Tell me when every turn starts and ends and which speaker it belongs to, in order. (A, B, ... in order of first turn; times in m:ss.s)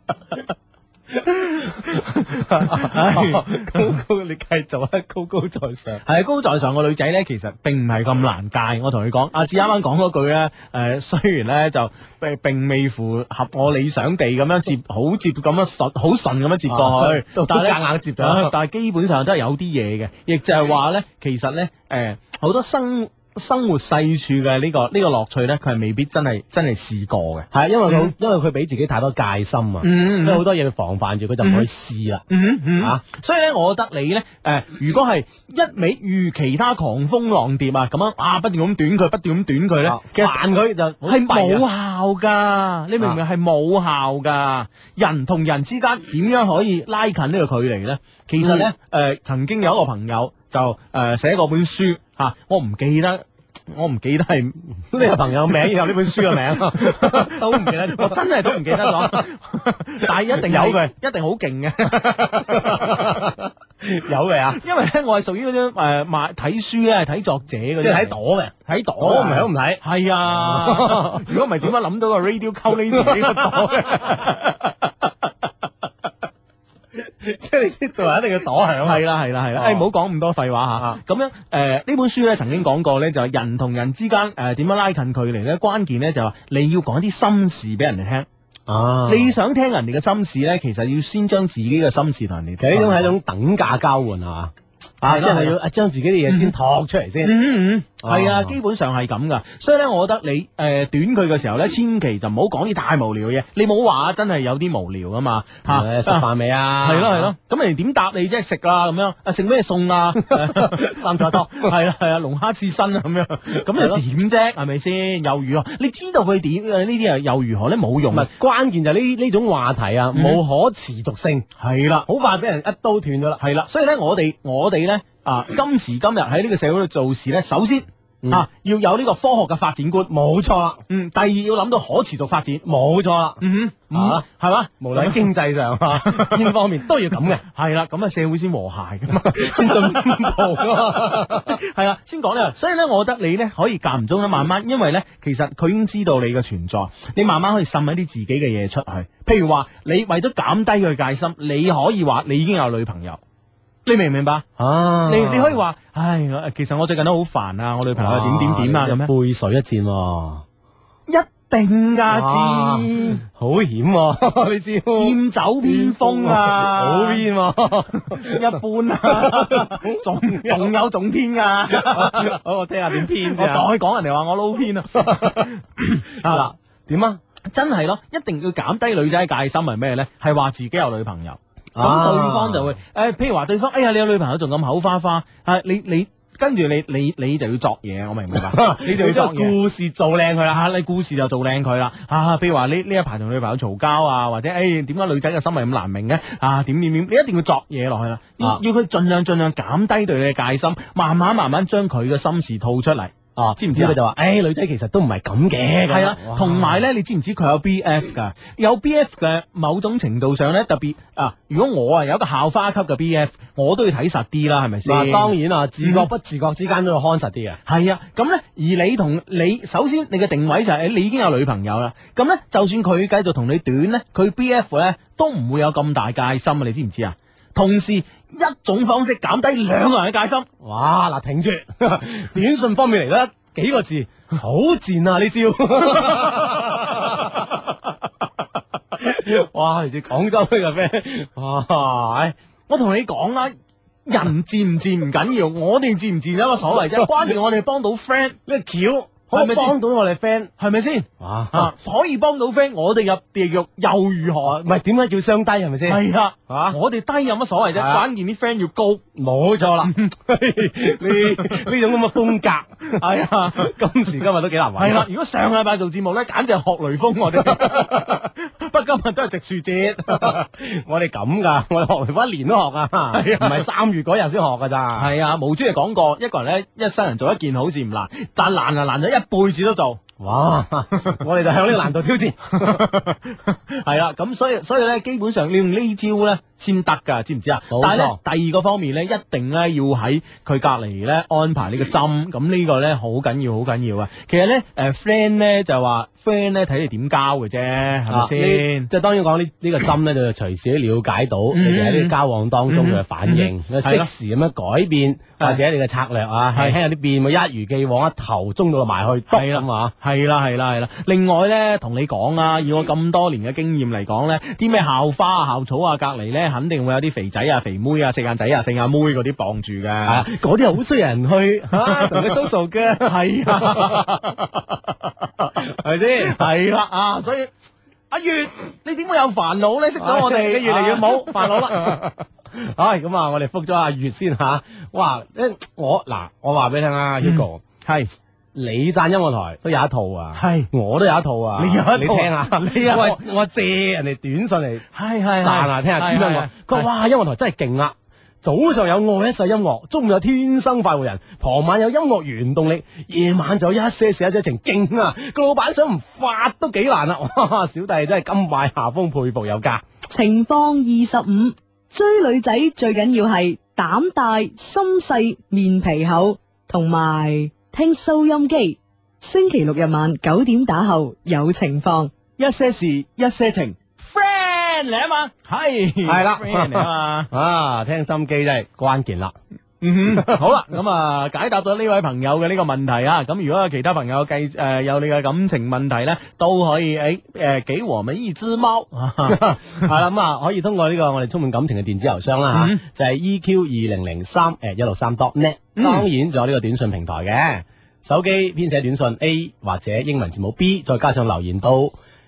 0:01.3-0:06.0 A
0:02.1-0:04.0 B
0:06.0-0:28.1 B
0:16.7-0:18.5 A
0:27.5-0:32.2 A
0:29.8-0:30.4 B
0:31.4-0:31.7 B
0:32.3-0:40.4 B
0:39.8-0:41.6 A
0:41.0-1:03.2 B
0:48.4-0:48.7 A
0:54.9-0:59.2 A
1:00.3-1:00.9 A
1:02.4-1:04.6 A
1:04.6-1:15.1 B
1:07.8-1:11.3 A
1:13.0-1:14.2 A
1:17.0-1:19.0 A
1:18.8-1:28.3 B
1:19.6-1:19.8 A
1:28.7-1:29.3 A
1:29.1-1:33.1 B
1:32.6-1:37.3 A
1:35.0-1:35.6 B
1:36.3-1:36.5 B
1:37.2-1:46.2 B
1:38.0-1:38.5 A
1:45.6-1:47.3 A
1:46.8-1:58.3 B
1:50.3-1:51.7 A
1:53.6-1:54.0 A
1:58.1-2:01.4 A
2:00.1-2:00.4 B
2:01.6-2:02.0 B
2:02.1-2:03.4 A
2:03.4-2:10.1 B
2:10.1-2:10.8 A
2:10.9-2:12.6 B
2:12.6-2:14.2 A
2:13.4-2:15.3 B
2:14.8-2:17.4 A
2:15.9-2:16.5 B
2:17.4-2:33.2 B
2:19.2-2:21.6 A
2:33.8-2:34.4 B
2:34.6-2:35.6 A
2:35.1-2:39.1 B
2:37.9-2:40.4 A
2:41.1-2:43.2 B
2:42.1-2:48.4 A
2:45.0-2:47.2 B
2:48.1-2:52.4 B
2:49.0-2:50.7 A
2:51.7-2:53.6 A
2:52.9-2:56.5 B
2:54.9-2:55.4 A
2:56.2-2:57.2 A
2:57.5-3:09.6 B
3:01.8-3:02.7 A
3:08.4-3:10.6 A
3:10.5-3:24.0 B
3:23.4-3:26.8 A
3:25.9-3:36.1 B
3:34.8-3:37.6 A
3:37.6-3:50.5 B
3:50.6-3:57.5 A
3:59.0-4:02.3 A
4:02.7-4:08.4 B
4:08.4-4:10.5 A
4:09.3-4:09.8 B
4:10.6-4:14.6 B
4:11.2-4:11.7 A
4:14.4-4:16.8 A
4:15.8-4:19.0 B
4:17.7-4:18.0 A
4:19.1-4:25.1 A
4:19.8-4:20.1 B
4:21.0-4:21.7 B
4:22.9-4:23.7 B
4:24.8-4:30.4 B
4:30.1-4:35.1 A
4:33.1-4:33.6 B
4:35.0-4:40.0 B
4:40.2-4:42.8 A
4:42.6-4:58.9 B
4:47.7-4:48.2 A
4:58.1-5:09.9 A
5:01.5-5:02.1 B
5:02.7-5:04.1 B
5:09.3-5:20.3 B
5:20.0-5:24.0 A
5:21.7-5:22.3 B
5:23.0-5:25.5 B
5:25.6-5:26.4 A
5:26.2-5:27.5 B
5:28.1-5:32.1 B
5:30.0-5:37.6 A
5:37.2-5:38.1 B
5:38.5-5:44.8 A
5:40.4-5:40.7 B
5:41.6-5:43.2 B
5:44.9-5:46.9 B
5:45.4-5:59.8 A
6:00.1-6:12.1 C
6:12.4-6:17.3 B
6:16.1-6:19.3 A
6:19.8-6:29.9 B
6:20.1-6:20.4 A
6:29.2-6:41.9 A
6:32.5-6:32.8 B
6:35.8-6:36.1 B